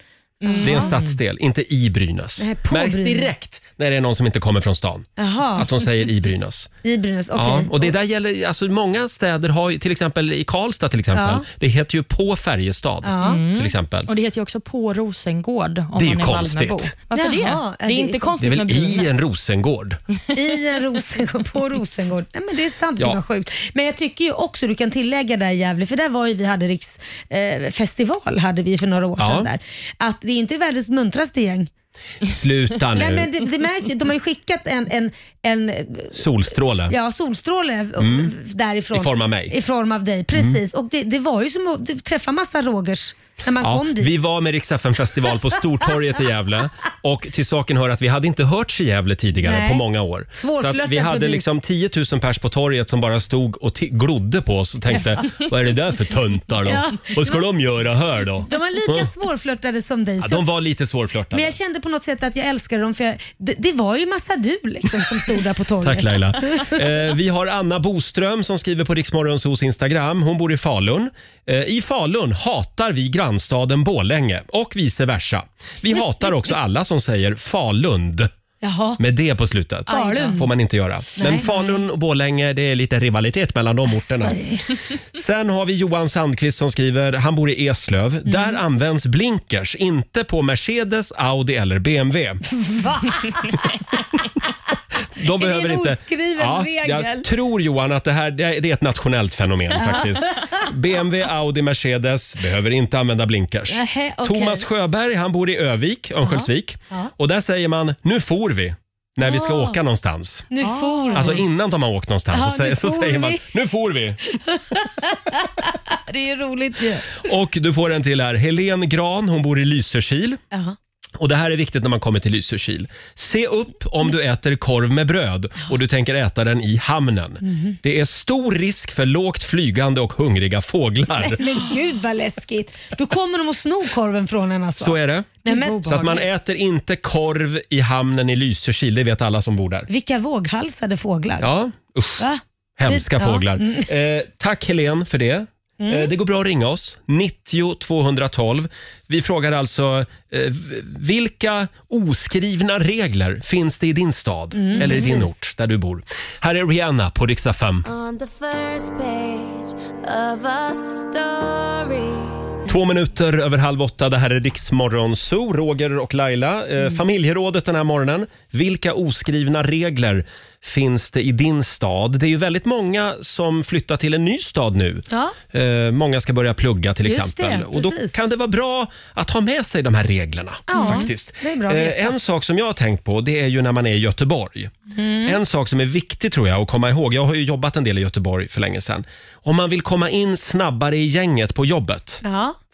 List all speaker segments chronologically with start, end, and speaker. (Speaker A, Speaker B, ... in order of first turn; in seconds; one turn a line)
Speaker A: 0.4-1.0
Speaker B: 0.4-1.2
Speaker C: 0.6-6.7
Speaker A: 2.4-3.3
Speaker A: 5.2-5.7
Speaker A: 6.8-7.9
Speaker C: 7.3-14.1
Speaker A: 11.1-11.4
Speaker A: 13.0-13.4
Speaker B: 13.2-19.2
Speaker C: 16.0-16.9
Speaker A: 17.1-18.3
Speaker C: 18.4-20.0
Speaker A: 20.3-31.7
Speaker C: 29.2-29.5
Speaker C: 32.2-33.3
Speaker A: 33.0-36.2
Speaker C: 36.1-36.9
Speaker A: 36.9-44.1
Speaker C: 38.0-38.3
Speaker C: 38.9-39.5
Speaker C: 40.3-40.6
Speaker C: 43.6-59.1
Speaker A: 49.4-51.5
Speaker A: 56.6-57.4
Speaker A: 58.5-60.5
Speaker C: 60.2-61.6
Speaker A: 61.3-66.8
Speaker C: 65.8-78.3
Speaker A: 78.6-79.0
Speaker C: 79.0-84.4
Speaker A: 79.9-80.5
Speaker B: 79.9-80.3
Speaker A: 81.2-81.8
Speaker A: 84.0-84.6
Speaker C: 85.1-92.4
Speaker A: 88.3-88.5
Speaker A: 92.5-93.7
Speaker C: 95.2-110.5
Speaker A: 95.4-97.3
Speaker A: 99.8-100.3
Speaker A: 103.7-104.7
Speaker A: 106.3-107.1
Speaker A: 109.3-109.8
Speaker A: 110.5-111.4
Speaker B: 110.7-111.3
Speaker C: 111.1-114.2
Speaker A: 112.3-113.5
Speaker A: 114.5-117.1
Speaker C: 117.2-120.4
Speaker C: 121.2-131.4
Speaker A: 127.4-127.8
Speaker A: 131.2-136.1
Speaker C: 134.8-139.9
Speaker B: 135.4-136.2
Speaker A: 139.9-141.5
Speaker C: 141.4-142.2
Speaker A: 142.2-143.9
Speaker C: 142.8-157.9
Speaker A: 145.8-146.1
Speaker A: 154.6-155.3
Speaker D: 157.8-162.6
Speaker C: 162.7-184.7
Speaker A: 175.1-175.4
Speaker A: 177.1-178.2
Speaker A: 180.7-182.2
Speaker B: 180.8-181.0
Speaker A: 184.9-185.4
Speaker C: 185.2-192.2
Speaker A: 192.2-192.6